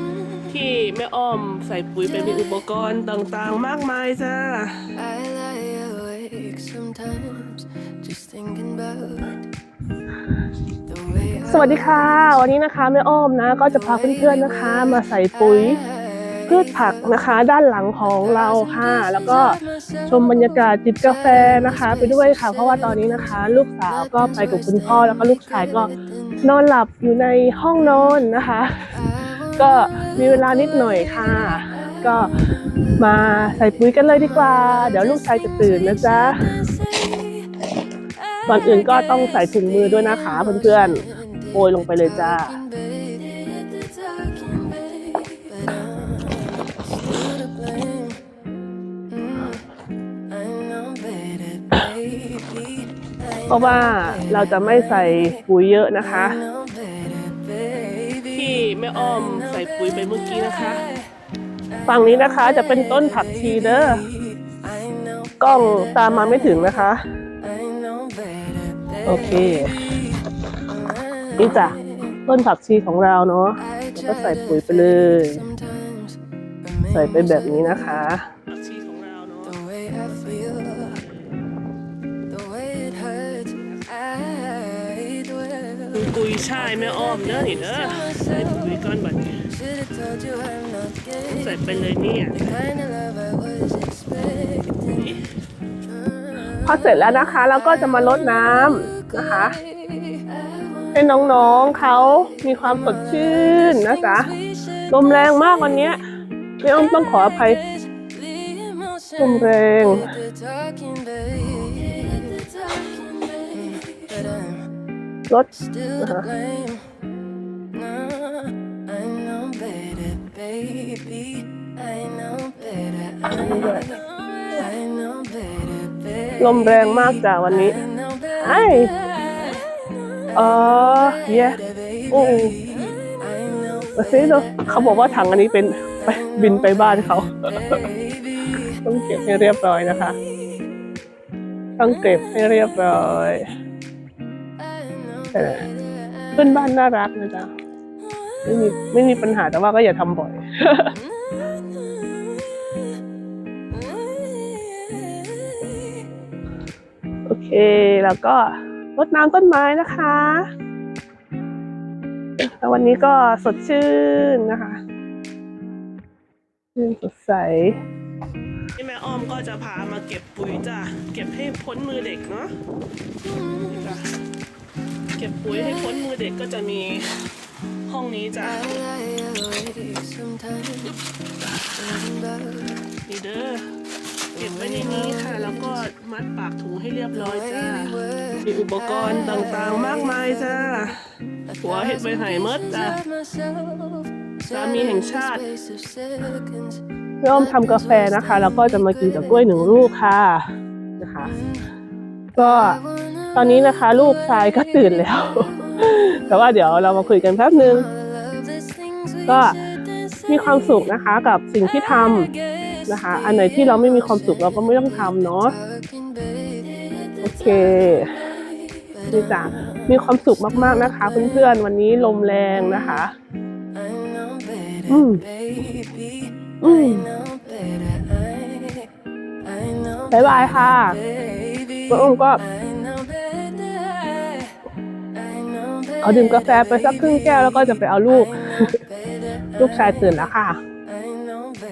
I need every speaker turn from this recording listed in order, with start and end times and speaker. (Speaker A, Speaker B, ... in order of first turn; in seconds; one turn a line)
Speaker A: 0.5-4.9
Speaker B: 5.2-7.6
Speaker B: 8.4-9.2
Speaker A: 11.4-15.8
Speaker A: 16.5-25.9
Speaker A: 26.4-29.0
Speaker A: 29.5-32.3
Speaker A: 33.0-36.7
Speaker A: 38.5-42.6
Speaker B: 43.9-45.7
Speaker A: 53.5-56.4
Speaker B: 58.4-59.8
Speaker A: 58.4-60.8
Speaker B: 60.4-60.8
Speaker A: 61.9-64.0
Speaker A: 65.4-67.0
Speaker A: 69.0-69.9
Speaker A: 71.4-75.5
Speaker A: 76.9-79.5
Speaker B: 79.3-81.1
Speaker A: 86.0-89.4
Speaker B: 88.0-88.3
Speaker B: 91.1-91.5
Speaker A: 91.4-92.4
Speaker B: 94.7-95.2
Speaker A: 96.6-99.6
Speaker A: 101.0-104.4
Speaker A: 104.9-106.0
Speaker A: 106.6-107.6
Speaker A: 109.2-110.2
Speaker B: 111.5-114.1
Speaker A: 116.0-116.3
Speaker A: 123.2-124.0
Speaker A: 126.4-127.8
Speaker A: 128.4-128.9
Speaker A: 130.3-132.6
Speaker A: 133.9-137.8
Speaker A: 138.8-140.2
Speaker A: 141.8-143.4
Speaker A: 145.3-145.7
Speaker A: 146.4-147.5
Speaker A: 148.4-150.9
Speaker A: 157.3-160.5
Speaker A: 162.4-164.8
Speaker A: 166.8-167.8
Speaker A: 168.8-172.5
Speaker A: 175.2-177.2
Speaker A: 177.9-178.7
Speaker B: 178.6-180.9
Speaker A: 183.1-183.6
Speaker A: 184.4-191.0
Speaker B: 184.4-184.8
Speaker B: 188.5-190.7
Speaker B: 191.6-193.0
Speaker A: 191.6-193.0
Speaker B: 194.5-195.0
Speaker A: 194.5-195.4
Speaker A: 197.2-200.4
Speaker A: 201.0-201.3
Speaker A: 202.4-202.8
Speaker A: 203.3-207.9
Speaker A: 209.3-209.6
Speaker A: 210.3-212.3
Speaker A: 212.9-215.6
Speaker A: 217.2-218.3
Speaker A: 219.1-223.1
Speaker A: 224.9-225.2
Speaker A: 226.6-227.1
Speaker A: 230.1-231.0
Speaker A: 231.9-232.4
Speaker A: 236.0-238.8
Speaker A: 239.6-240.6